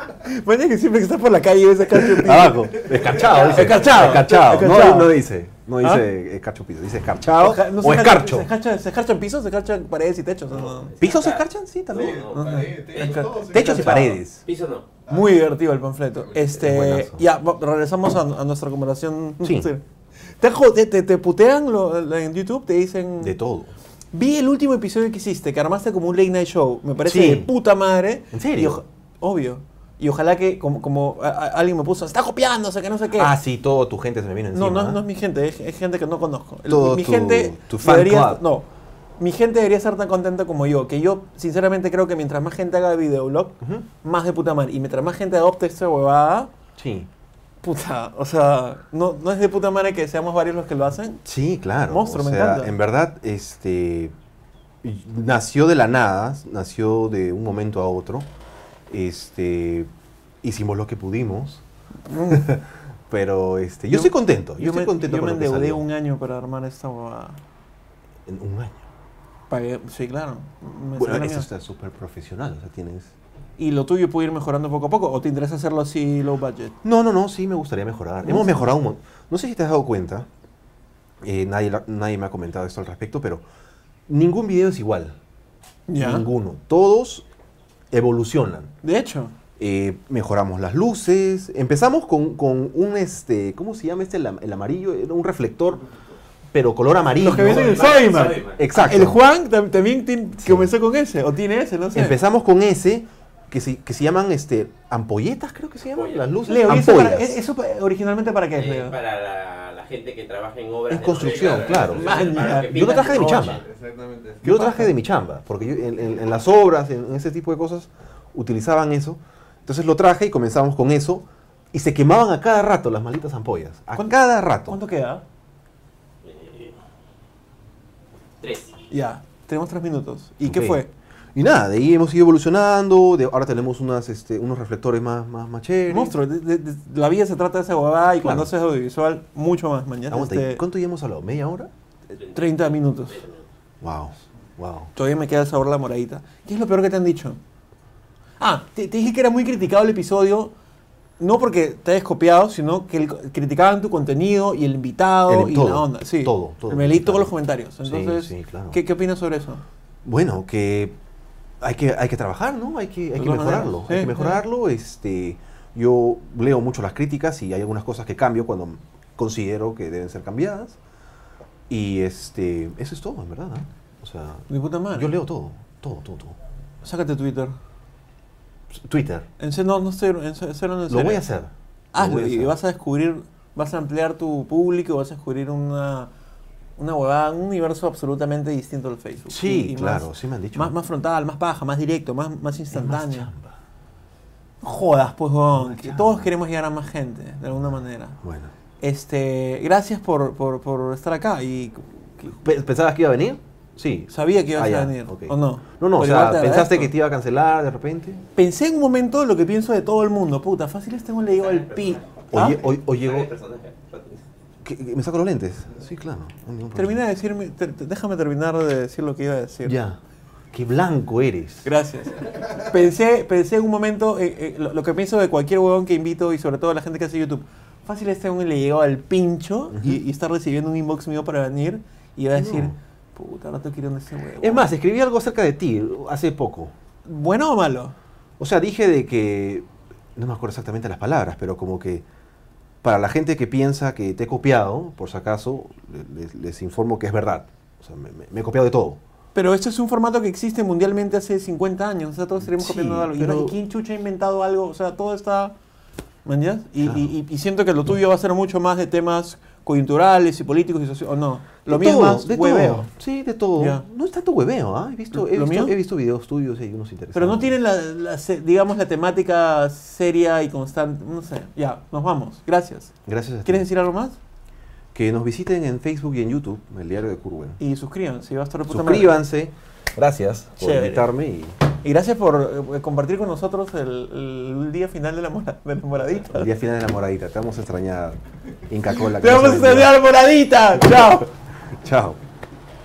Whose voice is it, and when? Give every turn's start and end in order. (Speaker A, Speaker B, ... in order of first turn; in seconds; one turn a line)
Speaker A: 0.2-5.2
Speaker B: 1.9-8.5
Speaker C: 3.2-4.3
Speaker A: 7.4-10.9
Speaker C: 10.8-13.2
Speaker B: 11.0-12.2
Speaker D: 11.9-13.9
Speaker A: 12.3-14.2
Speaker B: 13.0-14.4
Speaker C: 14.4-14.9
Speaker D: 15.1-15.3
Speaker A: 15.1-19.8
Speaker B: 16.5-17.2
Speaker B: 19.4-19.7
Speaker A: 20.4-23.4
Speaker B: 23.2-23.7
Speaker A: 24.1-33.3
Speaker B: 27.1-27.5
Speaker B: 28.3-28.8
Speaker B: 33.1-35.0
Speaker A: 34.5-38.7
Speaker B: 36.7-38.4
Speaker A: 39.2-46.5
Speaker B: 43.6-43.9
Speaker B: 46.8-47.1
Speaker A: 47.6-51.2
Speaker B: 51.2-54.1
Speaker A: 51.9-52.7
Speaker B: 54.8-58.3
Speaker B: 58.9-59.9
Speaker B: 60.4-61.6
Speaker A: 62.1-62.6
Speaker B: 62.3-65.8
Speaker A: 63.9-67.4
Speaker B: 68.3-68.9
Speaker A: 69.5-71.5
Speaker B: 71.0-73.1
Speaker A: 73.6-76.8
Speaker B: 76.8-80.3
Speaker A: 78.2-78.7
Speaker B: 81.2-83.4
Speaker B: 84.1-85.2
Speaker A: 85.9-86.3
Speaker B: 86.0-87.3
Speaker B: 87.9-88.7
Speaker A: 88.8-89.3
Speaker B: 89.6-95.9
Speaker B: 96.5-98.0
Speaker A: 97.2-102.2
Speaker C: 97.3-98.6
Speaker B: 98.6-99.2
Speaker B: 100.4-100.7
Speaker B: 101.9-107.4
Speaker C: 106.0-106.2
Speaker A: 106.4-109.0
Speaker C: 108.6-113.4
Speaker B: 110.9-113.7
Speaker D: 111.4-111.8
Speaker A: 111.7-113.6
Speaker D: 113.3-114.5
Speaker B: 114.4-124.8
Speaker A: 114.5-114.9
Speaker A: 124.0-125.2
Speaker C: 126.2-126.8
Speaker C: 128.4-128.8
Speaker A: 128.9-130.9
Speaker B: 130.4-130.8
Speaker B: 131.3-136.2
Speaker A: 135.9-140.6
Speaker B: 138.2-138.5
Speaker B: 140.1-141.7
Speaker A: 142.1-143.2
Speaker C: 142.2-143.4
Speaker B: 143.8-144.9
Speaker A: 144.9-147.4
Speaker A: 148.4-150.5
Speaker A: 151.2-159.6
Speaker B: 155.3-157.3
Speaker B: 157.8-158.8
Speaker B: 160.1-161.0
Speaker B: 161.6-170.8
Speaker A: 163.2-164.4
Speaker B: 171.7-176.4
Speaker A: 174.5-175.1
Speaker A: 176.8-177.6
Speaker B: 178.7-179.3
Speaker A: 179.4-181.2
Speaker B: 180.9-182.6
Speaker A: 181.9-186.1
Speaker A: 186.8-193.3
Speaker B: 189.3-190.7
Speaker B: 192.7-193.6
Speaker A: 194.6-198.2
Speaker B: 195.6-196.3
Speaker B: 198.2-198.5
Speaker A: 198.8-202.4
Speaker B: 202.4-208.2
Speaker A: 204.1-206.9
Speaker A: 208.4-212.6
Speaker C: 211.4-214.2
Speaker B: 212.3-213.3
Speaker B: 214.6-217.0
Speaker A: 216.7-219.8
Speaker B: 219.6-220.0
Speaker B: 220.5-221.7
Speaker A: 221.6-234.7
Speaker B: 232.4-232.8
Speaker B: 234.4-236.7
Speaker A: 237.1-237.9
Speaker B: 238.4-242.1
Speaker B: 242.8-249.0
Speaker A: 249.3-255.5
Speaker B: 252.4-253.6
Speaker A: 256.2-262.9
Speaker B: 256.8-257.1
Speaker B: 261.7-267.6
Speaker A: 263.6-263.8
Speaker A: 265.1-265.8
Speaker A: 267.1-272.9
Speaker B: 273.1-273.7
Speaker A: 273.4-274.2
Speaker B: 274.9-277.6
Speaker A: 277.6-279.2
Speaker B: 278.7-281.6
Speaker A: 280.6-281.1
Speaker A: 281.8-286.5
Speaker B: 286.3-290.0
Speaker A: 288.9-291.3
Speaker B: 291.7-292.2